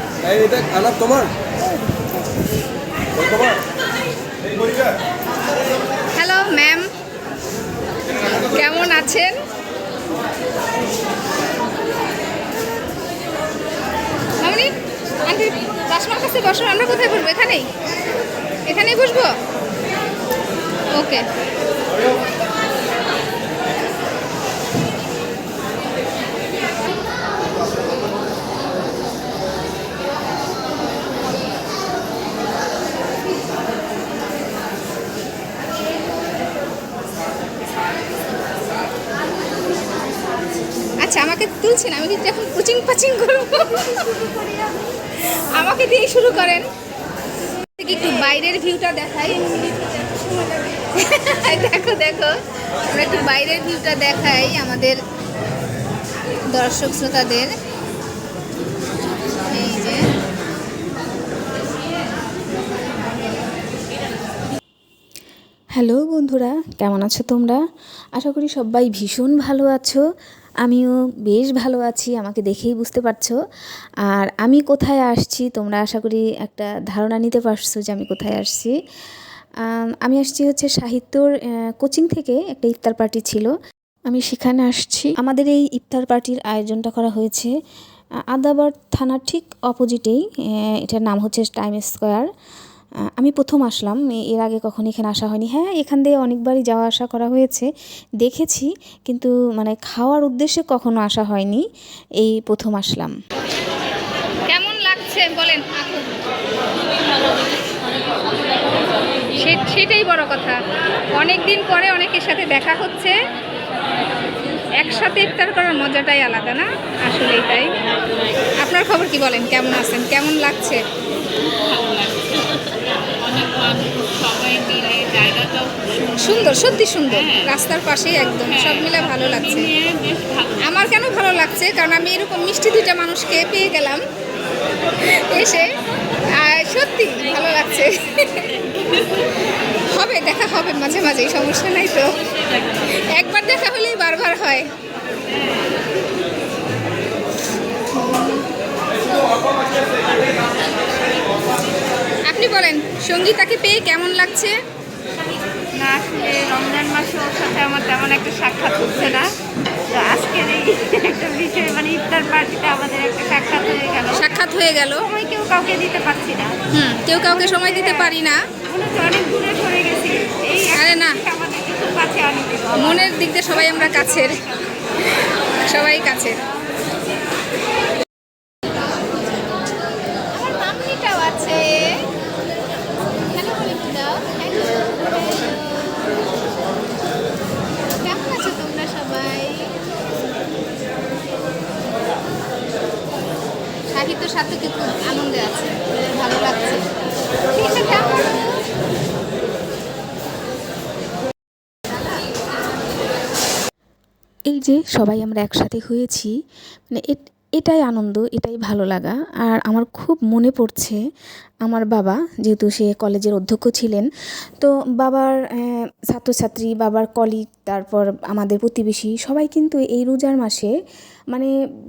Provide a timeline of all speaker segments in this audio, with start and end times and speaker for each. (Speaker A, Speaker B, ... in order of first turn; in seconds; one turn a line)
Speaker A: 6.1-6.8
Speaker A: 8.4-9.3
Speaker A: 14.4-14.7
Speaker A: 15.2-17.7
Speaker A: 18.7-19.3
Speaker A: 20.9-21.3
Speaker A: 41.0-44.5
Speaker A: 45.5-46.7
Speaker A: 47.8-52.3
Speaker A: 52.9-55.0
Speaker A: 56.5-57.5
Speaker A: 59.5-60.1
Speaker B: 65.8-67.6
Speaker B: 68.1-70.0
Speaker B: 70.6-73.4
Speaker B: 74.1-78.7
Speaker B: 79.6-83.5
Speaker B: 84.1-87.5
Speaker B: 88.3-92.3
Speaker B: 93.2-97.7
Speaker B: 98.2-101.6
Speaker B: 102.2-103.1
Speaker A: 104.5-106.1
Speaker A: 109.3-110.5
Speaker A: 111.1-113.2
Speaker A: 114.8-117.7
Speaker A: 118.6-120.8
Speaker C: 121.6-122.6
Speaker C: 123.2-127.5
Speaker A: 126.2-129.7
Speaker C: 128.4-130.7
Speaker A: 130.6-134.0
Speaker A: 134.9-135.7
Speaker A: 136.3-138.5
Speaker A: 139.9-142.2
Speaker A: 142.9-144.7
Speaker A: 152.2-154.5
Speaker C: 155.7-159.3
Speaker C: 159.9-164.4
Speaker A: 164.1-165.1
Speaker C: 165.0-166.6
Speaker A: 166.7-168.4
Speaker C: 167.2-174.8
Speaker A: 170.6-171.2
Speaker A: 172.8-174.5
Speaker A: 175.5-176.4
Speaker A: 180.3-182.1
Speaker A: 183.3-184.7
Speaker C: 183.3-183.8
Speaker C: 184.8-185.5
Speaker A: 185.4-186.1
Speaker A: 188.0-189.7
Speaker A: 193.9-196.8
Speaker A: 197.5-198.3
Speaker B: 204.5-206.3
Speaker B: 206.9-211.0
Speaker B: 211.6-214.1
Speaker B: 214.6-220.7